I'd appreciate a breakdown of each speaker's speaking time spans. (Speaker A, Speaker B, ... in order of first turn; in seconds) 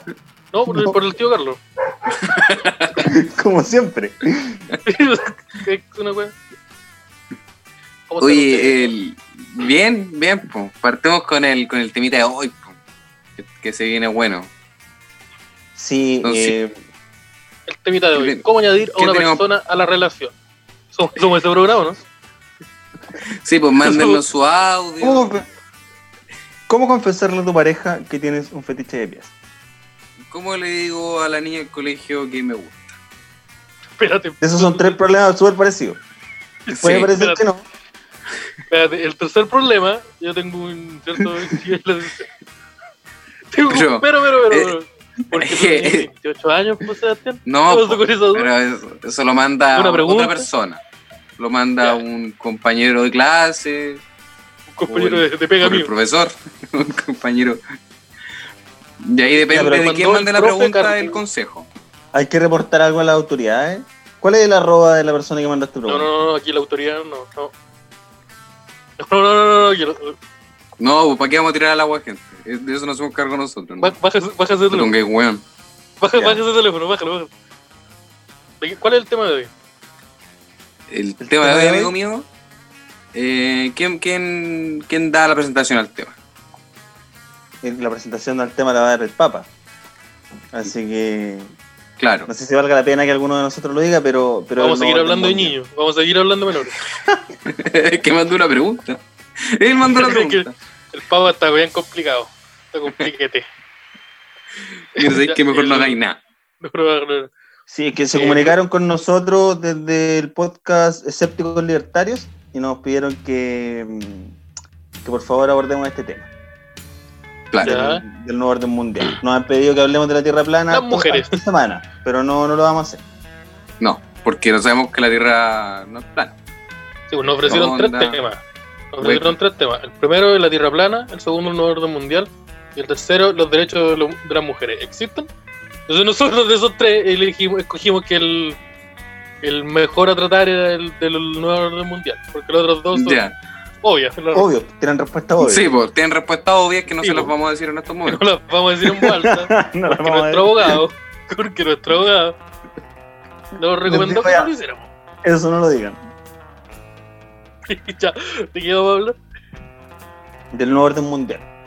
Speaker A: 0.5-1.6, 4.8-6.3, 8.1-8.9, 17.7-20.3, 20.9-22.0, 23.8-24.2, 34.0-35.0, 36.7-37.4, 38.7-42.3, 43.5-48.5, 49.7-50.5, 54.7-55.9, 59.4-61.2, 65.9-67.5, 69.0-70.2, 73.8-74.9, 76.0-77.3, 78.6-79.5, 94.6-96.8, 99.9-103.5, 105.0-106.0, 106.6-107.3, 108.1-108.5, 117.6-118.0, 120.7-121.4, 127.1-128.4, 128.9-135.3, 135.9-138.6, 139.4-143.2, 143.8-144.5, 147.0-147.3, 148.1-152.3, 153.6-154.9, 157.7-159.2
Speaker B: 2.1-3.1, 8.2-12.8, 13.4-14.5, 16.2-16.6, 18.1-19.4, 23.4-25.3, 30.3-33.0, 36.7-37.1, 43.7-44.7, 45.4-46.1, 47.5-50.8, 51.4-54.0, 54.9-57.6, 59.0-61.7, 70.8-73.9, 74.7-75.4, 80.9-82.2, 83.1-86.1, 92.0-92.3, 97.5-100.5, 104.9-106.2, 117.5-117.8, 123.8-126.3, 127.4-128.2, 129.0-129.3, 142.9-143.3, 145.4-148.2
Speaker C: 3.0-4.6, 15.8-16.7, 25.0-25.4, 26.7-29.3, 34.4-36.0, 36.8-37.6, 59.5-59.9, 62.1-66.1, 81.2-81.9, 87.6-89.5, 90.5-91.5, 92.3-95.5, 107.7-114.4, 115.0-116.3, 117.6-123.0, 144.3-145.6, 148.9-150.8, 153.8-154.5, 155.2-156.0, 160.5-161.5